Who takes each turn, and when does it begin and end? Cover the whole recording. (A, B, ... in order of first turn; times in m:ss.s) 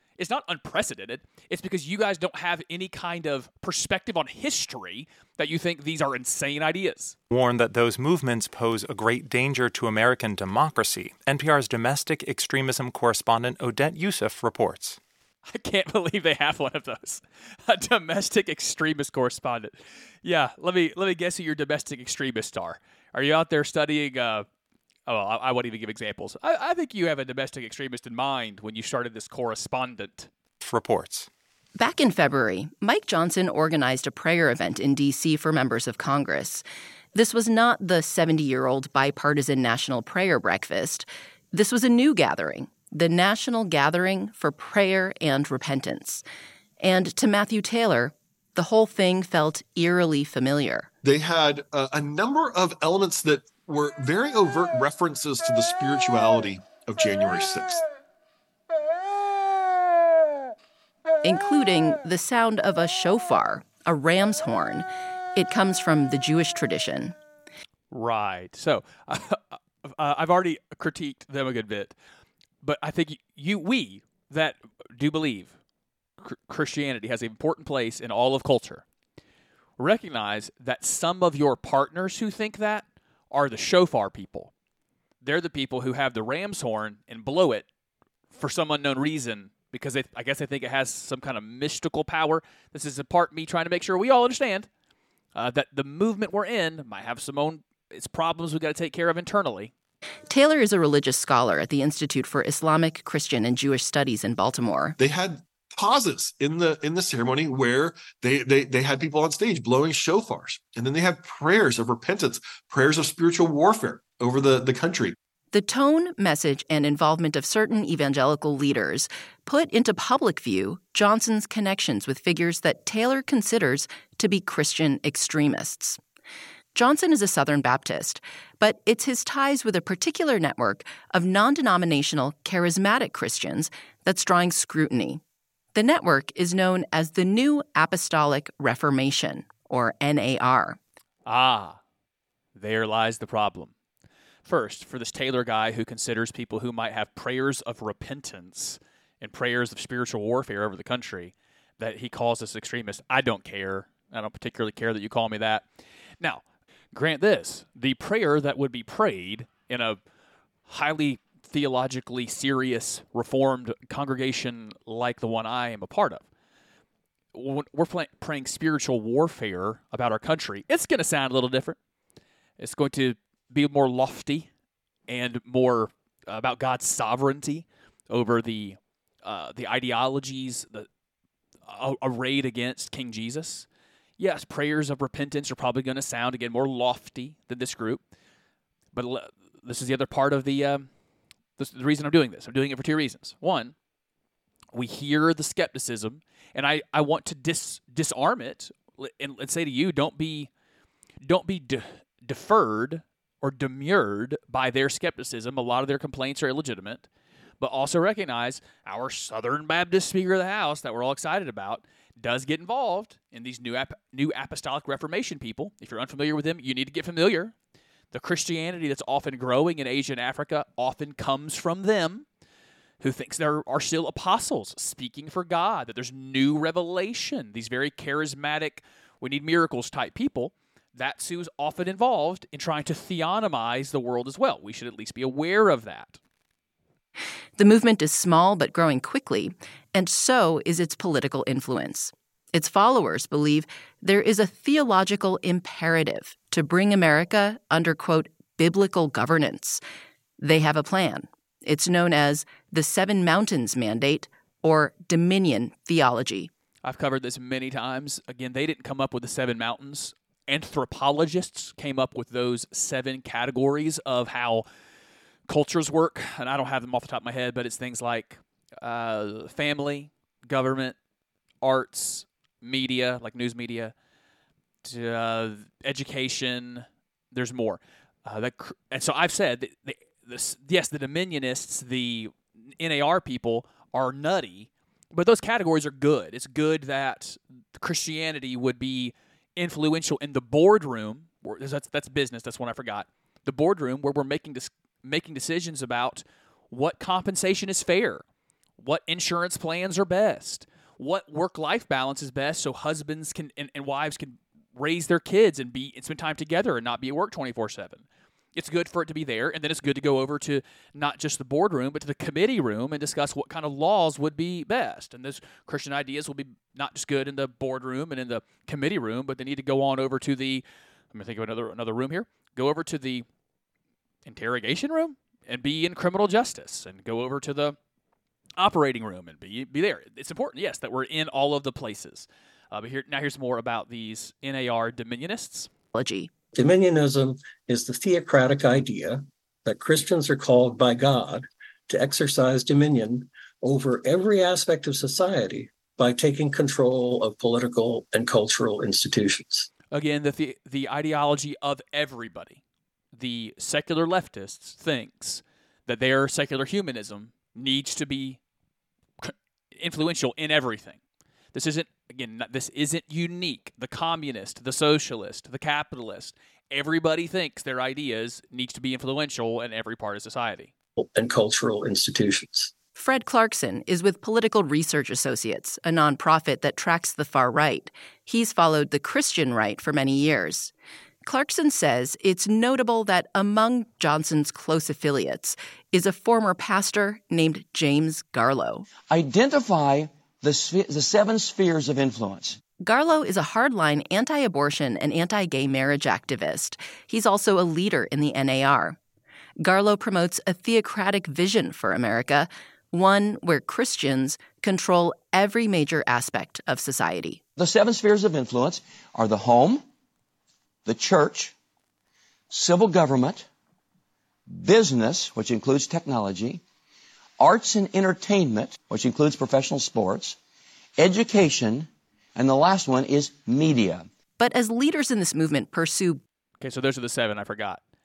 0:00.2-0:07.2 A
0:07.3-0:15.0 B
0:15.5-0:24.5 A
0:25.1-0:30.3 A
0:30.6-0:31.3 B
0:31.8-0:46.2 C
0:46.8-0:50.9 C
0:51.0-0:57.8 D
1:01.2-1:07.2 C
1:07.9-1:12.0 A
1:12.6-1:15.6 A
1:16.2-1:18.8 A
1:19.8-1:24.5 A
1:25.2-1:27.7 A
1:28.3-1:34.7 A
1:35.4-1:39.7 A
1:40.3-1:45.0 C
1:45.0-1:55.2 D
1:55.5-2:06.0 C
2:06.8-2:15.2 C
2:15.8-2:20.8 C
2:21.3-2:21.8 A
2:22.6-2:23.7 A
2:24.4-2:35.7 A
2:36.2-2:40.0 A
2:40.7-2:46.3 A
2:47.3-2:51.8 A
2:52.6-2:54.5 A
2:55.1-3:00.9 A
3:01.7-3:03.7 A
3:04.2-3:08.0 A
3:08.9-3:10.9 A
3:11.6-3:13.8 A
3:14.7-3:20.5 A
3:21.2-3:27.1 A
3:27.6-3:37.5 A
3:38.1-3:42.3 A
3:43.0-3:56.2 A
3:57.6-4:09.8 C
4:10.4-4:16.5 C
4:16.8-4:24.7 A
4:25.5-4:31.0 A
4:31.6-4:33.9 A
4:34.8-4:58.2 A
4:58.8-5:23.3 A
5:24.3-5:27.8 A
5:28.6-5:35.7 A
5:35.9-5:36.3 C
5:36.5-5:49.7 E
5:49.9-5:52.6 A
5:53.1-5:58.4 A
5:59.2-6:01.0 A
6:01.5-6:10.7 A
6:11.0-6:12.7 E
6:13.0-6:20.7 C
6:21.2-6:28.9 C
6:29.1-6:32.6 F
6:32.8-6:39.0 C
6:39.6-6:47.4 C
6:47.6-6:49.8 F
6:50.9-6:51.5 F
6:52.5-6:53.5 F
6:54.5-6:56.6 F
6:57.4-7:00.4 F
7:01.0-7:04.1 F
7:04.4-7:06.2 C
7:06.6-7:07.8 A